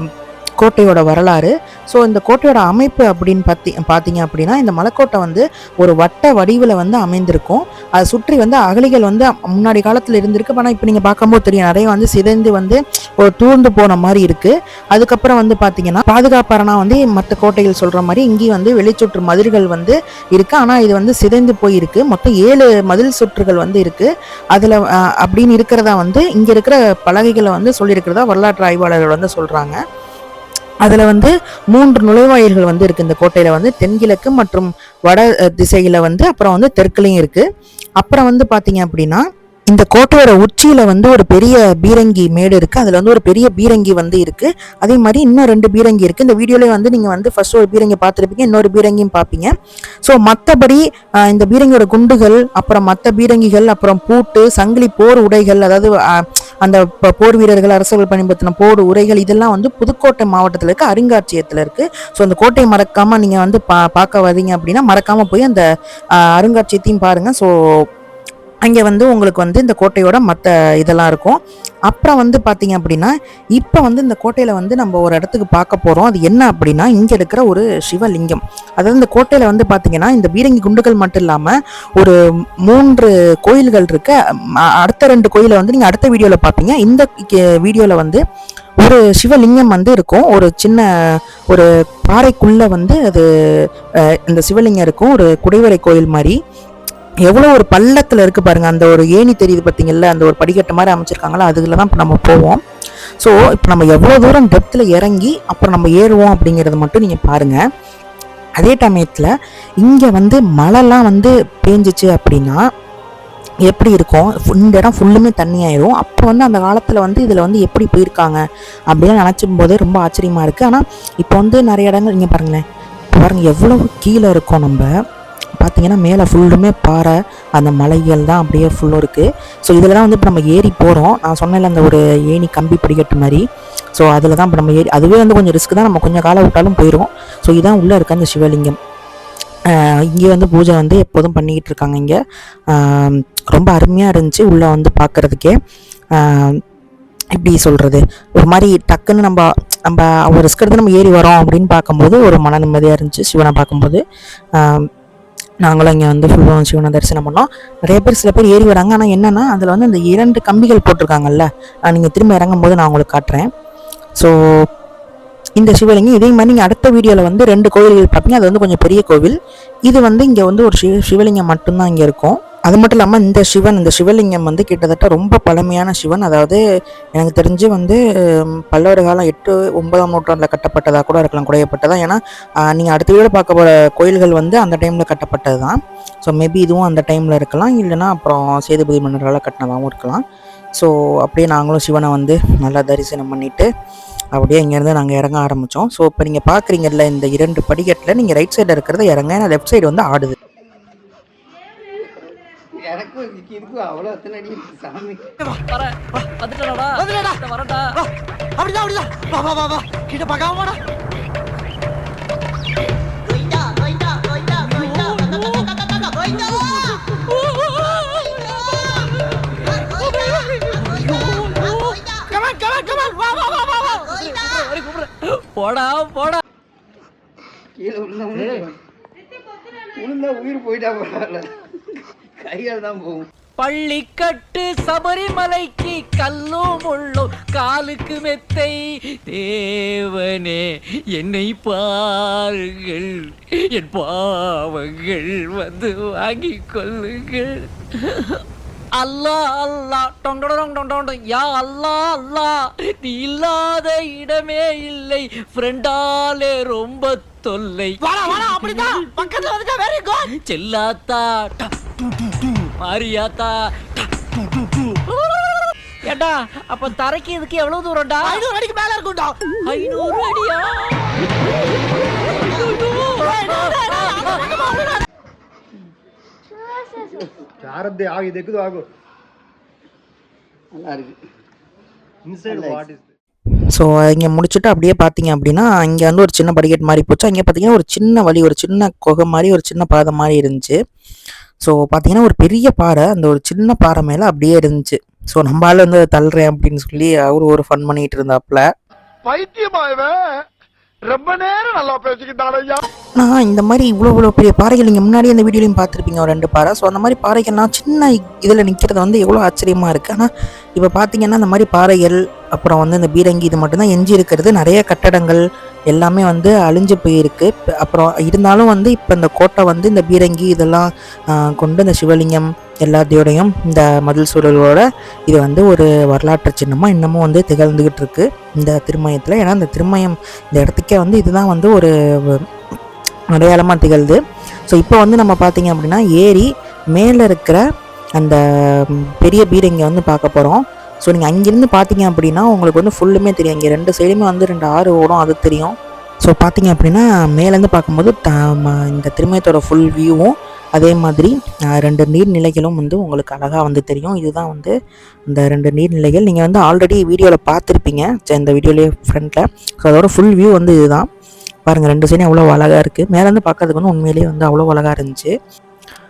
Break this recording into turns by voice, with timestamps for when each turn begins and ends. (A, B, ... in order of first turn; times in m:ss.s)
0:00.6-0:29.8 A
0:30.8-0:37.4 A
0:38.0-0:49.5 A
0:50.0-1:05.6 A
1:06.2-1:07.5 A
1:08.6-1:22.1 A
1:22.6-1:24.1 A
1:24.8-1:28.2 A
1:28.8-1:33.7 A
1:34.3-1:36.3 A
1:37.2-1:42.6 A
1:43.2-1:47.6 A
1:48.6-1:52.6 A
1:53.6-2:02.6 A
2:03.1-2:04.9 A
2:05.6-2:13.4 A
2:14.0-2:18.7 A
2:19.7-2:22.2 A
2:22.7-2:25.5 A
2:26.1-2:26.6 A
2:27.3-2:34.0 A
2:34.6-2:34.9 A
2:35.6-2:43.5 A
2:45.6-2:56.6 A
2:57.2-3:10.2 A
3:10.8-3:13.7 A
3:14.3-3:20.3 A
3:22.7-3:25.3 B
3:25.7-3:27.8 C
3:27.0-3:27.4 D
3:28.6-3:30.8 D
3:34.6-3:35.7 C
3:37.2-3:38.4 C
3:40.0-3:42.0 C
3:42.4-3:44.0 D
3:44.1-3:46.4 C
3:47.8-3:48.8 B
3:50.0-3:51.5 B
3:52.4-3:53.2 B
3:53.6-4:03.2 C
4:03.7-4:08.4 C
4:09.0-4:17.9 C
4:18.0-4:20.3 D
4:20.5-4:21.6 C
4:22.8-4:24.0 C
4:25.2-4:25.6 C
4:26.1-4:28.3 C
4:28.2-4:29.4 D
4:29.7-4:31.1 C
4:32.7-4:34.4 C
4:33.4-4:34.8 D
4:37.6-4:38.9 E
4:40.7-4:41.2 B
4:42.3-4:43.1 E
4:42.4-4:42.9 B
4:43.7-4:50.8 A
4:51.6-4:58.6 A
4:59.2-5:00.2 E
5:01.1-5:02.8 E
5:03.2-5:32.4 A
5:33.3-5:34.2 A
5:34.7-5:37.6 A
5:38.2-5:54.7 A
5:55.3-6:01.1 A
6:01.6-6:05.3 A